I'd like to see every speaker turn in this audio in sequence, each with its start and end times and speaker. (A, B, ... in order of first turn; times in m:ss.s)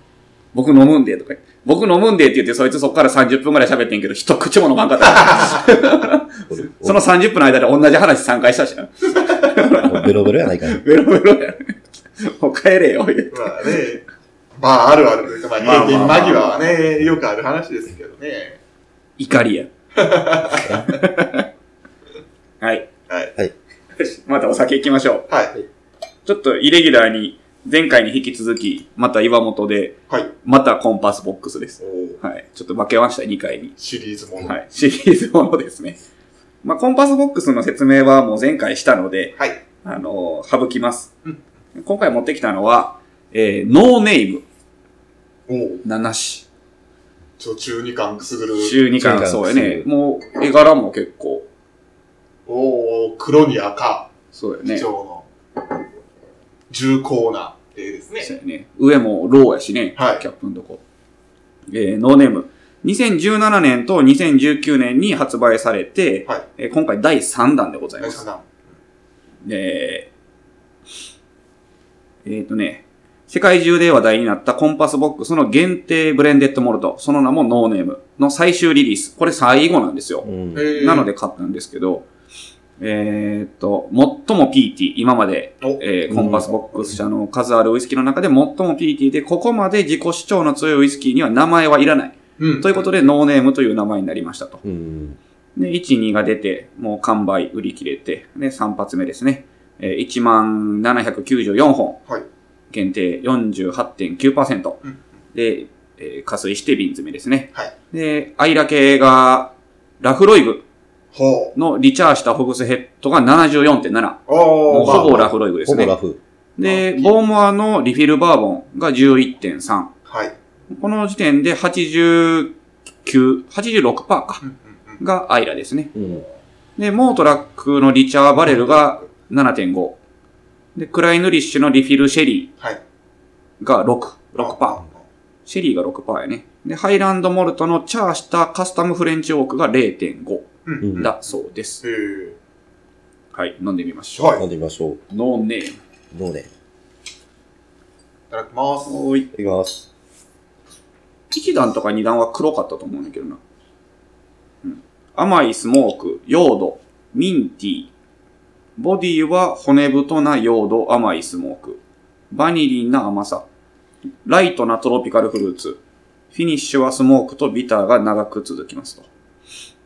0:00.5-0:13.9 A
0:05.0-0:05.7 B
0:06.5-0:07.0 C
0:09.8-0:10.8 C
0:13.3-0:14.0 B
0:14.6-0:18.6 B
0:15.6-0:16.7 A
0:19.2-0:19.7 A
0:20.0-0:20.8 B
0:20.6-0:20.9 C
0:20.9-0:21.5 A
0:22.6-0:22.9 A
0:24.0-0:25.3 A
0:25.3-0:25.6 B
0:26.2-0:33.8 A
0:31.8-0:32.2 B
0:33.8-0:34.6 B
0:34.4-0:36.0 A
0:36.6-0:41.1 A
0:41.8-0:44.4 A
0:45.5-0:45.8 B
0:45.8-0:46.5 A
0:47.4-0:48.8 B
0:48.6-0:51.5 A
0:49.0-0:49.9 C
0:52.5-0:54.1 B
0:54.3-0:54.9 A
0:54.7-0:55.3 B
0:56.7-0:58.3 B
0:58.2-1:00.8 A
1:00.0-1:00.2 B
1:01.7-1:08.2 A
1:08.0-1:08.5 B
1:09.4-1:10.1 A
1:12.2-1:22.1 A
1:20.2-1:20.7 C
1:20.5-1:21.1 B
1:22.8-1:34.6 A
1:26.1-1:27.0 C
1:32.4-1:32.9 B
1:34.6-1:35.2 C
1:35.6-1:42.0 A
1:42.7-1:44.8 A
1:45.3-1:50.6 A
1:51.1-1:51.6 B
1:51.6-1:56.0 A
1:54.3-1:55.2 B
1:54.8-1:56.2 C
1:56.6-1:59.9 A
1:56.6-1:57.1 B
2:00.1-2:00.3 B
2:00.7-2:04.4 A
2:04.4-2:05.0 B
2:05.0-2:05.9 A
2:05.9-2:06.2 C
2:06.8-2:10.0 A
2:10.8-2:12.5 A
2:13.6-2:14.8 A
2:14.4-2:15.0 B
2:15.5-2:21.8 A
2:20.7-2:21.2 B
2:20.8-2:21.1 C
2:21.8-2:22.4 B
2:23.3-2:24.4 A
2:24.2-2:24.4 B
2:24.4-2:25.0 C
2:25.1-2:25.8 A
2:26.1-2:26.5 C
2:28.3-2:29.0 B
2:28.9-2:29.3 A
2:29.3-2:29.9 C
2:31.3-2:33.4 A
2:34.6-2:37.9 A
2:38.8-2:41.8 A
2:42.3-2:43.4 A
2:44.2-2:45.8 A
2:46.3-2:49.1 A